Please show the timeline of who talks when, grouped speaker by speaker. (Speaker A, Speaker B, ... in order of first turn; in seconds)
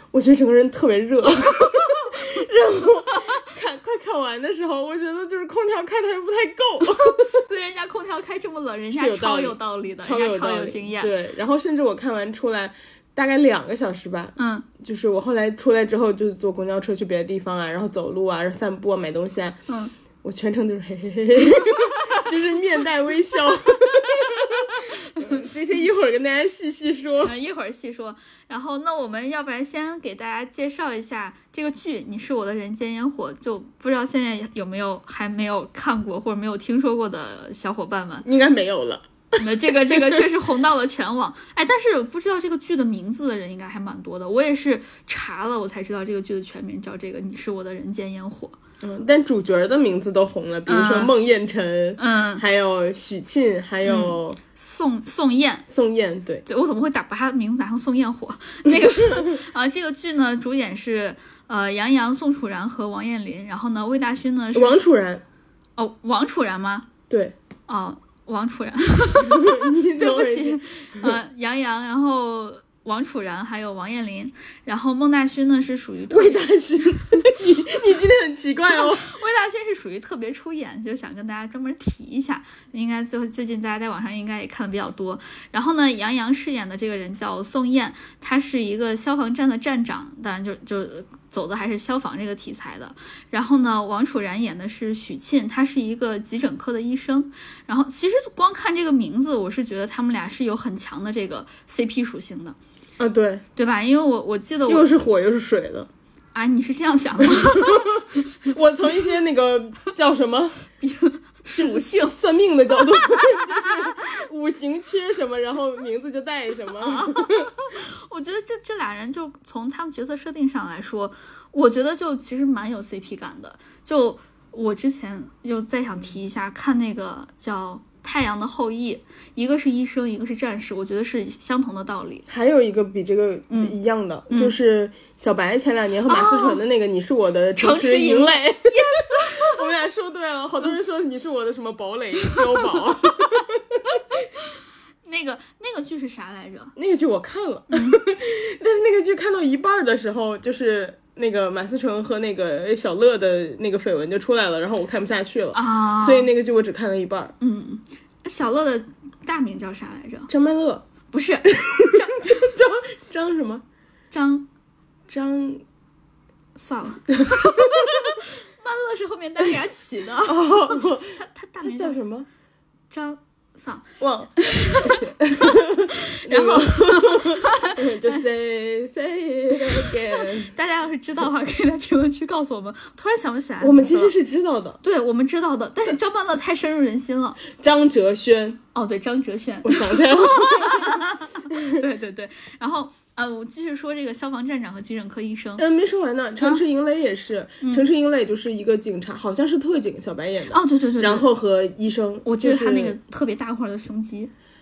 Speaker A: 0.1-7.4, 8.9-19.6, 20.2-27.3, 38.2-40.2, 48.8-54.4, 55.7-56.4, 59.1-59.3, 64.5-65.2, 67.1-67.3, 69.2-71.2, 76.1-79.1, 103.0-103.4, 104.7-105.9, 107.2-110.6, 111.5-117.5, 132.3-144.0, 146.8-157.3, 160.3-160.9, 161.6-163.6, 165.1-165.6, 170.2-172.3, 174.0-180.5, 183.6-184.8, 187.6-188.6, 189.6-191.8, 195.6-203.0
Speaker B: 7.2-11.1, 14.4-14.7, 19.7-19.9, 27.2-38.2, 39.4-48.6, 50.7-51.1, 52.0-52.4, 53.8-55.7, 56.4-64.8, 65.8-66.9, 67.7-76.5, 78.8-102.6, 103.6-104.9, 106.3-108.0, 110.8-112.1, 112.7-113.9, 116.8-132.2, 133.5-133.8, 134.3-134.6, 136.1-136.6, 137.6-139.6, 145.1-146.7, 147.7-148.0, 155.5-156.3, 157.4-160.3, 161.1-162.3, 164.1-164.5, 166.6-172.0, 172.9-173.8, 174.4-175.0, 175.9-178.2, 179.6-184.1, 184.8-187.4, 188.8-195.6, 200.5-201.2, 202.2-204.3